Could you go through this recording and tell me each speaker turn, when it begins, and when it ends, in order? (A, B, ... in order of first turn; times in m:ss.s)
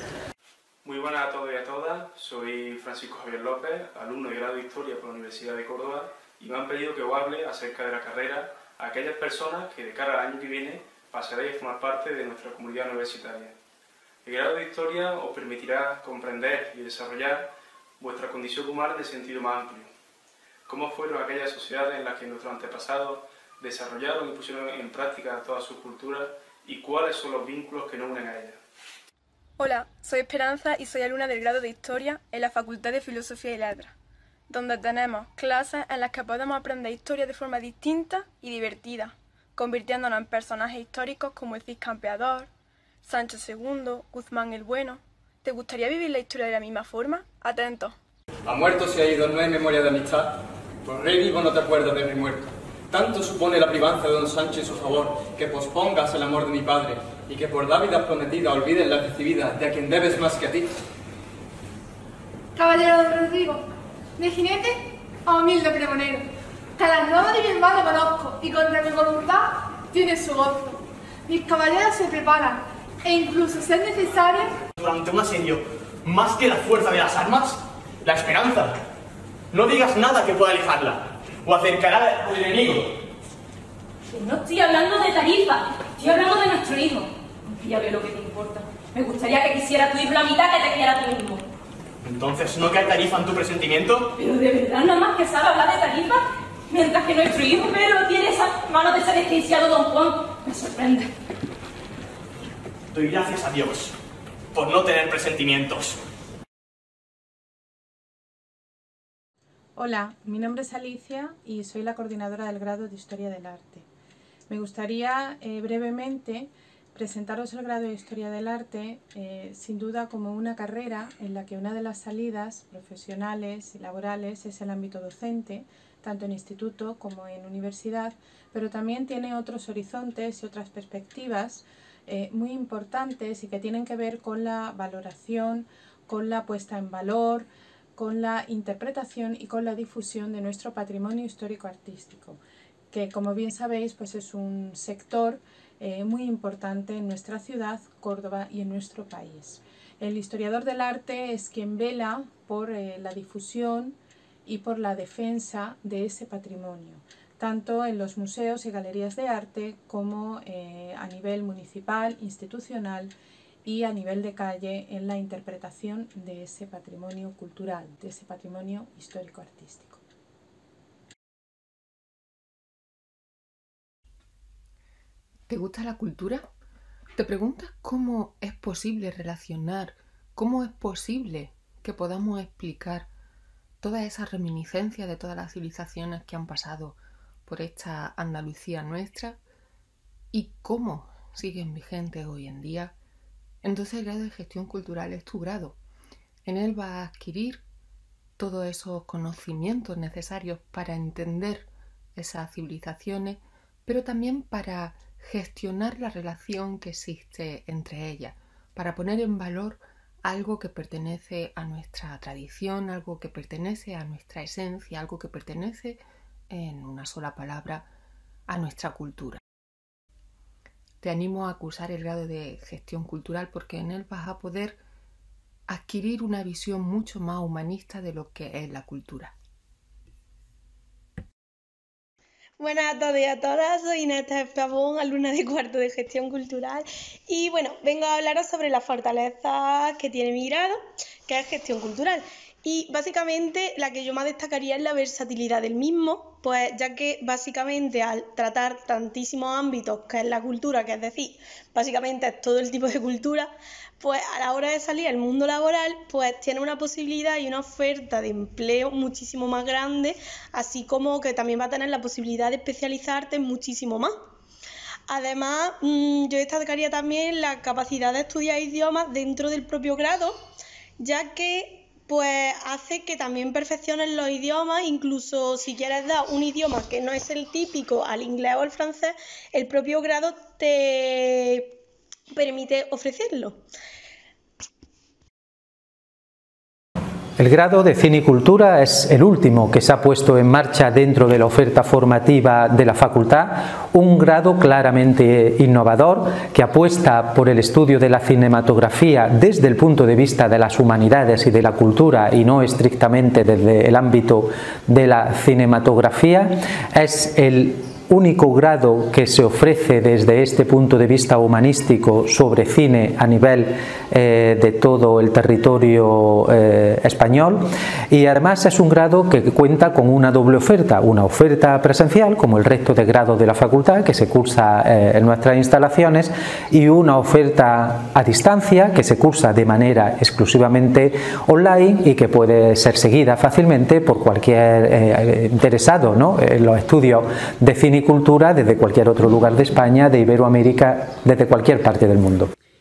0:00.8-0:13.6 A
0:14.2-0:19.9 A
0:20.7-0:28.6 A
0:29.6-0:34.0 B
0:34.5-0:42.5 B
0:43.0-0:48.0 B
0:48.5-1:00.7 C
1:02.6-1:14.6 D
1:14.8-1:18.8 E
1:19.5-1:23.0 E
1:24.1-1:31.5 F
1:32.0-1:34.1 E
1:34.2-1:41.1 F
1:42.9-1:44.0 E
1:44.5-1:46.0 E
1:49.8-1:53.9 G
1:54.5-2:50.0 G
2:55.5-2:56.5 H
2:57.2-3:03.1 H
3:03.8-3:09.4 H
3:10.3-3:13.0 H
3:13.6-3:15.8 H
3:16.4-3:17.6 H
3:18.4-3:37.9 H
3:38.5-3:39.4 H
3:41.0-3:44.8 H
3:45.7-3:49.3 H
3:52.6-4:24.1 I
4:25.1-4:30.4 I
4:31.0-4:41.8 I
4:42.3-4:43.6 I
4:47.4-5:42.5 J